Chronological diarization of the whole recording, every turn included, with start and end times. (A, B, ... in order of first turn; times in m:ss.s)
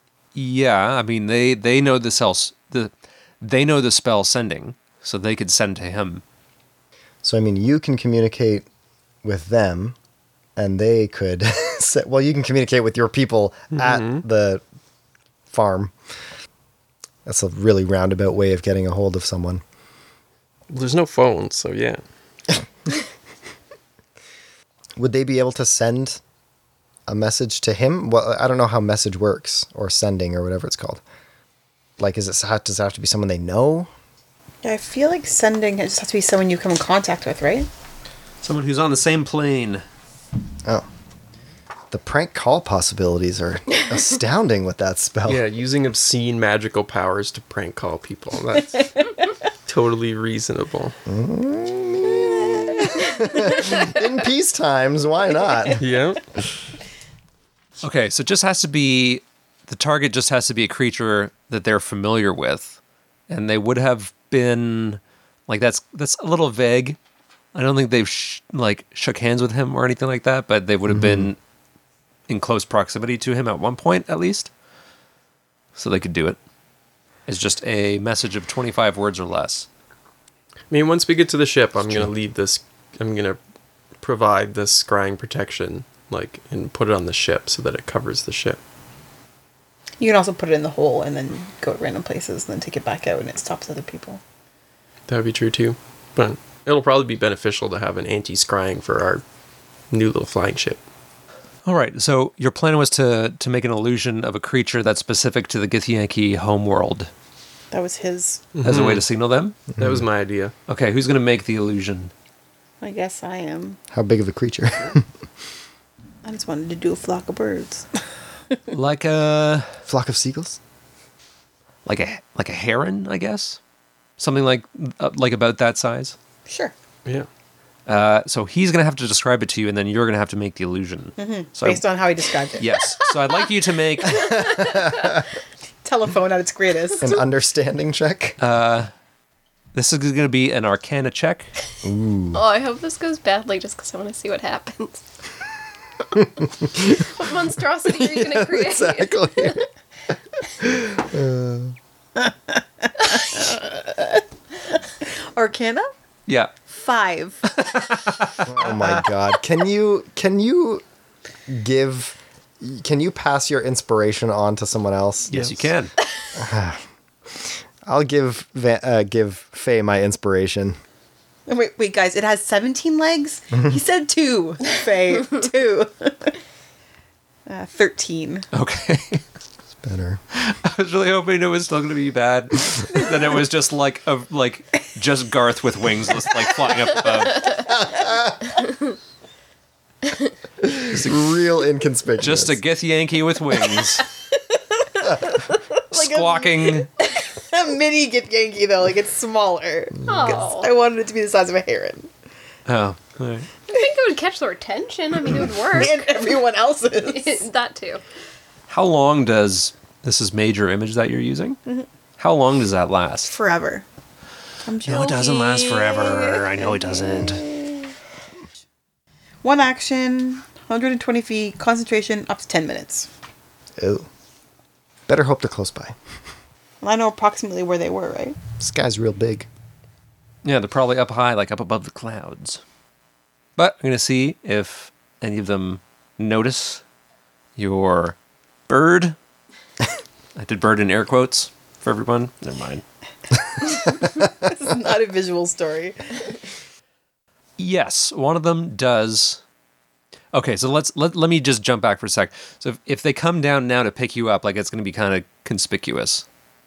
0:00.3-0:06.2 A
0:07.2-0:08.6 B
0:09.2-0:10.0 B
0:10.6-0:14.6 B
0:13.7-0:14.2 C
0:15.5-0:15.9 B
0:17.2-0:19.6 B
0:20.7-0:22.0 C
0:25.0-0:26.2 B
0:27.1-0:31.0 B
0:32.0-0:33.9 B
0:34.6-0:37.7 D
0:38.4-0:39.8 A
0:41.9-0:45.4 B
0:45.3-0:49.1 C
0:49.7-0:51.0 C
0:51.1-0:55.8 B
0:55.8-0:56.2 C
0:57.8-1:02.8 A
1:03.3-1:07.0 A
1:07.5-1:11.4 A
1:10.9-1:11.3 B
1:12.3-1:14.5 A
1:15.8-1:16.4 A
1:17.3-1:19.6 A
1:20.7-1:23.4 C
1:24.0-1:28.6 C
1:30.0-1:34.2 D
1:35.1-1:39.2 C
1:39.9-1:40.8 C
1:41.6-1:47.1 A
1:47.7-1:48.5 D
1:48.5-1:49.0 C
1:48.6-1:49.6 A
1:49.8-1:50.5 C
1:50.7-1:52.1 A
1:52.8-1:53.8 D
1:53.9-1:55.0 B
1:56.2-1:57.8 D
1:58.7-1:59.7 A
1:59.9-2:00.6 B
2:01.8-2:03.6 A
2:04.2-2:06.1 A
2:06.5-2:06.7 D
2:07.8-2:11.8 A
2:11.2-2:12.8 D
2:12.6-2:14.4 A
2:14.1-2:15.2 B
2:15.8-2:17.2 D
2:17.0-2:18.4 B
2:18.4-2:18.9 A
2:19.7-2:21.5 A
2:21.8-2:22.4 B
2:22.3-2:25.0 E
2:26.8-2:29.6 E
2:27.9-2:29.7 B
2:30.6-2:31.7 B
2:33.0-2:34.2 D
2:35.0-2:35.9 D
2:36.3-2:36.5 A
2:36.7-2:37.6 D
2:37.6-2:38.4 A
2:38.4-2:40.8 B
2:41.5-2:45.3 B
2:45.3-2:45.9 A
2:45.3-2:45.7 C
2:46.3-2:50.8 B
2:51.5-2:56.3 D
2:57.5-2:58.4 D
2:58.5-2:59.2 A
2:59.8-3:00.2 B
3:00.3-3:07.7 A
3:07.6-3:08.6 B
3:10.8-3:12.6 B
3:10.9-3:11.2 A
3:12.2-3:14.0 A
3:14.8-3:22.1 D
3:15.8-3:16.9 A
3:20.0-3:20.7 E
3:22.7-3:23.5 A
3:23.7-3:26.1 E
3:25.7-3:27.4 D
3:27.0-3:28.0 E
3:28.7-3:31.6 A
3:32.2-3:33.3 A
3:33.3-3:33.8 D
3:34.6-3:37.6 D
3:34.8-3:37.5 A
3:39.4-3:43.1 D
3:43.8-3:44.1 B
3:45.1-3:46.0 B
3:46.8-3:48.4 D
3:48.6-3:49.5 B
3:50.4-3:52.6 A
3:53.6-3:56.8 A
3:57.6-3:58.1 A
3:58.7-3:59.2 A
4:00.4-4:02.8 A
4:03.9-4:06.0 D
4:07.6-4:09.4 A
4:10.3-4:16.2 A